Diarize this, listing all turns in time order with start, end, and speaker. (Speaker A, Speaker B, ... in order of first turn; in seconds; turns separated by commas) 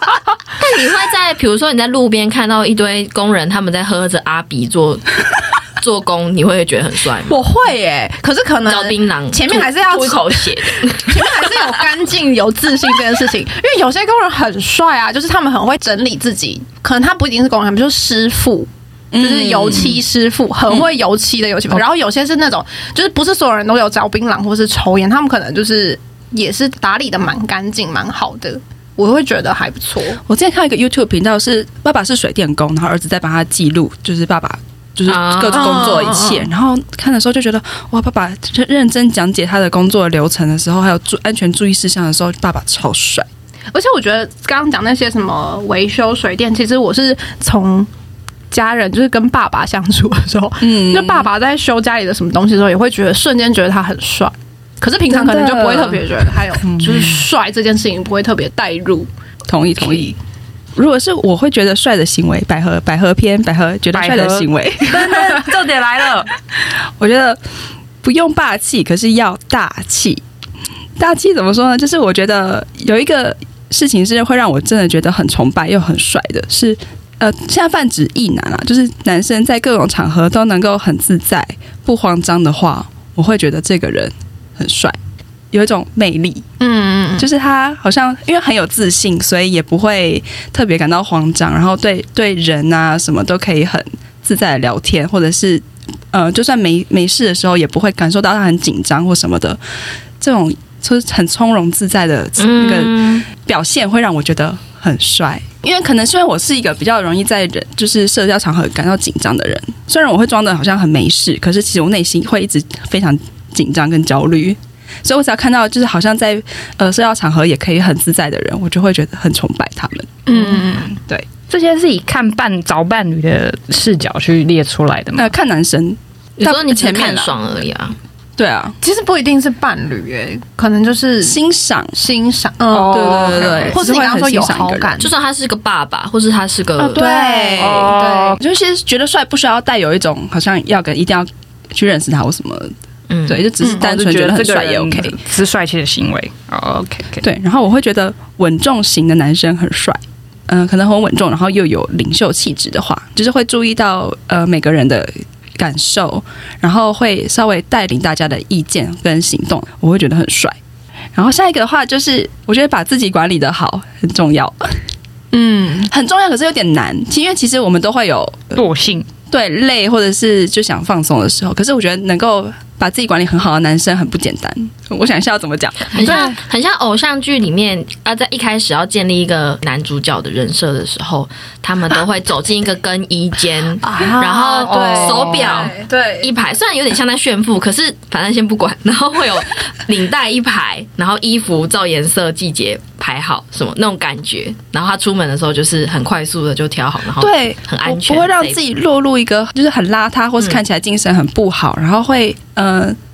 Speaker A: 0.6-5.2, Speaker A: 5.8-7.4, Speaker B: 7.3-30.2, Speaker A: 8.7-11.7, Speaker C: 19.1-20.0, Speaker C: 30.2-43.3, Speaker A: 35.1-36.1, Speaker B: 35.5-36.5, Speaker B: 43.7-47.9, Speaker B: 48.5-59.1, Speaker C: 50.6-51.3, Speaker C: 55.1-56.0, Speaker D: 56.6-57.2, Speaker C: 59.5-60.2, Speaker C: 60.8-65.5, Speaker D: 63.9-66.3, Speaker C: 67.0-67.4, Speaker C: 68.0-70.2, Speaker C: 71.0-85.0, Speaker C: 85.5-86.4, Speaker B: 86.6-87.3, Speaker C: 87.2-99.6, Speaker C: 100.2-120.5, Speaker A: 102.4-103.2, Speaker B: 120.3-121.0, Speaker D: 121.5-125.3, Speaker C: 125.2-127.3, Speaker A: 126.4-128.0, Speaker C: 128.4-128.8, Speaker B: 128.8-131.4, Speaker C: 131.2-131.9, Speaker B: 131.9-135.1, Speaker D: 132.7-133.7, Speaker C: 132.9-134.9, Speaker A: 135.0-137.0, Speaker C: 136.8-142.7, Speaker B: 136.9-138.4, Speaker D: 137.6-138.4, Speaker A: 143.1-143.4, Speaker C: 143.3-145.2, Speaker D: 143.6-147.2, Speaker C: 147.2-160.6, Speaker C: 161.1-164.8, Speaker B: 165.3-165.9, Speaker C: 165.9-168.6, Speaker D: 168.5-169.1, Speaker C: 169.3-176.3, Speaker A: 175.9-198.6, Speaker B: 176.0-176.3, Speaker B: 183.8-185.9, Speaker D: 184.6-185.7, Speaker C: 185.8-186.3, Speaker C: 197.2-203.0